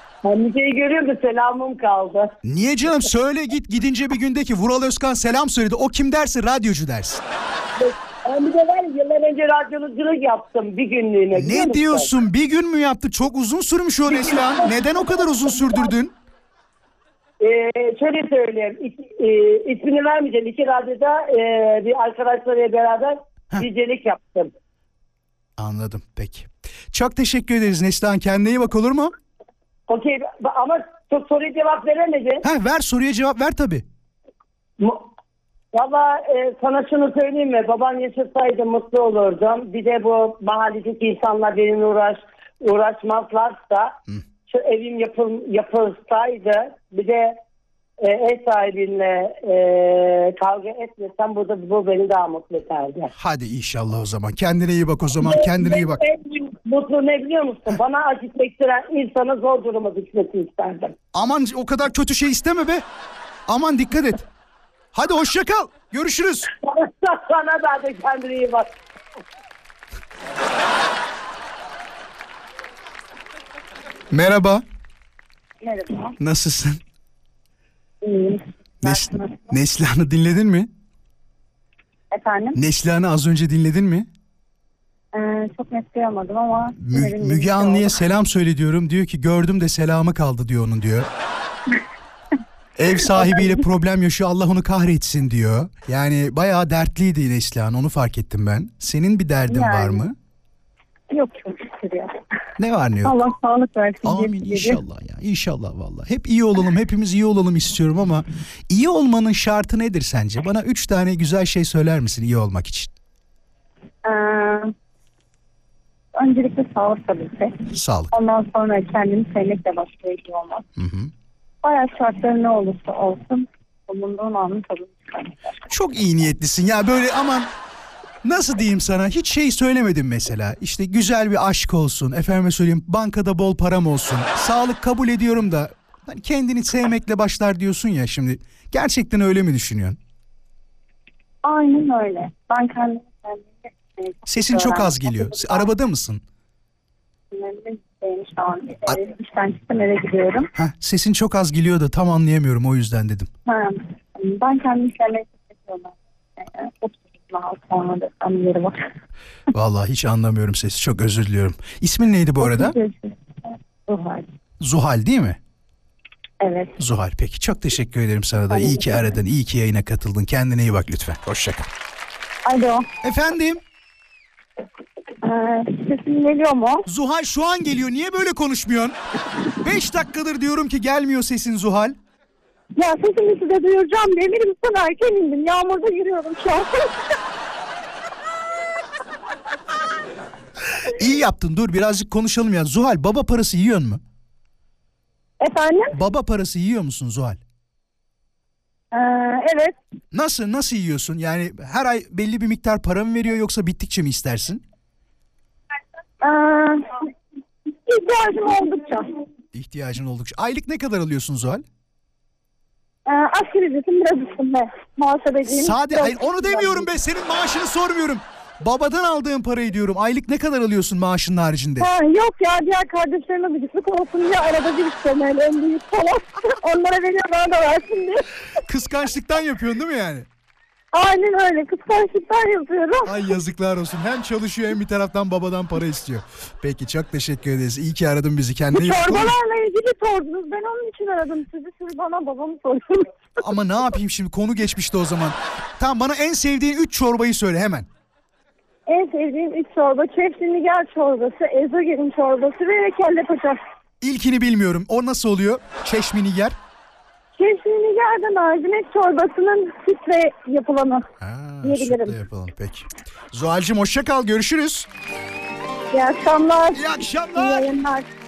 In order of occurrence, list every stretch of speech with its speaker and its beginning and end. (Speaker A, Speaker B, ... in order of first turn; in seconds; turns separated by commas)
Speaker A: 0.2-2.3, Speaker B: 2.4-7.2, Speaker A: 7.8-12.1, Speaker B: 11.3-16.1, Speaker A: 14.1-15.9, Speaker A: 17.4-24.5, Speaker B: 25.6-29.1, Speaker A: 29.9-32.4, Speaker B: 32.4-33.9, Speaker A: 34.8-35.1, Speaker A: 35.7-43.9, Speaker A: 44.5-47.4, Speaker A: 48.0-53.1, Speaker B: 53.1-56.0, Speaker A: 55.2-60.9, Speaker B: 61.1-62.8, Speaker B: 63.5-64.2, Speaker B: 64.9-66.5, Speaker A: 66.6-68.7, Speaker B: 74.1-74.6, Speaker C: 75.6-76.1, Speaker B: 76.2-76.8, Speaker C: 78.0-79.5, Speaker B: 78.8-80.7, Speaker C: 82.1-82.6, Speaker B: 82.5-84.1, Speaker C: 85.1-87.9, Speaker B: 86.8-91.1, Speaker B: 92.8-100.1, Speaker C: 93.1-93.6, Speaker C: 99.5-100.0, Speaker C: 101.1-102.2, Speaker B: 102.6-103.2, Speaker C: 103.0-104.8, Speaker B: 104.0-112.9, Speaker C: 114.0-114.7, Speaker C: 116.2-120.6, Speaker B: 117.7-118.1, Speaker B: 120.8-121.1, Speaker C: 121.6-125.4, Speaker B: 125.7-127.5, Speaker B: 128.2-140.0, Speaker C: 141.4-145.7, Speaker B: 144.3-146.2, Speaker C: 147.3-150.5, Speaker B: 150.5-153.3, Speaker C: 153.4-158.8, Speaker B: 159.5-162.8, Speaker C: 162.4-164.3, Speaker B: 164.6-165.4, Speaker C: 166.4-166.8, Speaker B: 166.8-171.7, Speaker C: 168.5-169.2, Speaker C: 172.4-172.8, Speaker B: 173.0-173.6, Speaker C: 175.2-176.9, Speaker B: 176.9-179.0, Speaker B: 179.6-181.9, Speaker C: 182.8-187.0, Speaker B: 190.9-194.0, Speaker C: 195.4-195.9, Speaker B: 195.9-197.4, Speaker C: 198.9-199.8, Speaker B: 200.1-204.6, Speaker C: 206.2-207.1, Speaker C: 207.8-209.1, Speaker B: 209.5-211.6, Speaker C: 213.1-216.9, Speaker B: 215.4-221.9, Speaker C: 221.8-228.3, Speaker B: 228.7-230.3, Speaker C: 230.9-233.2, Speaker B: 233.0-239.4, Speaker C: 238.7-243.1, Speaker B: 243.4-247.9, Speaker C: 248.9-253.6, Speaker B: 254.0-256.6, Speaker C: 257.4-261.1, Speaker B: 261.2-264.9, Speaker C: 261.6-262.2, Speaker C: 265.9-268.1, Speaker B: 266.7-267.7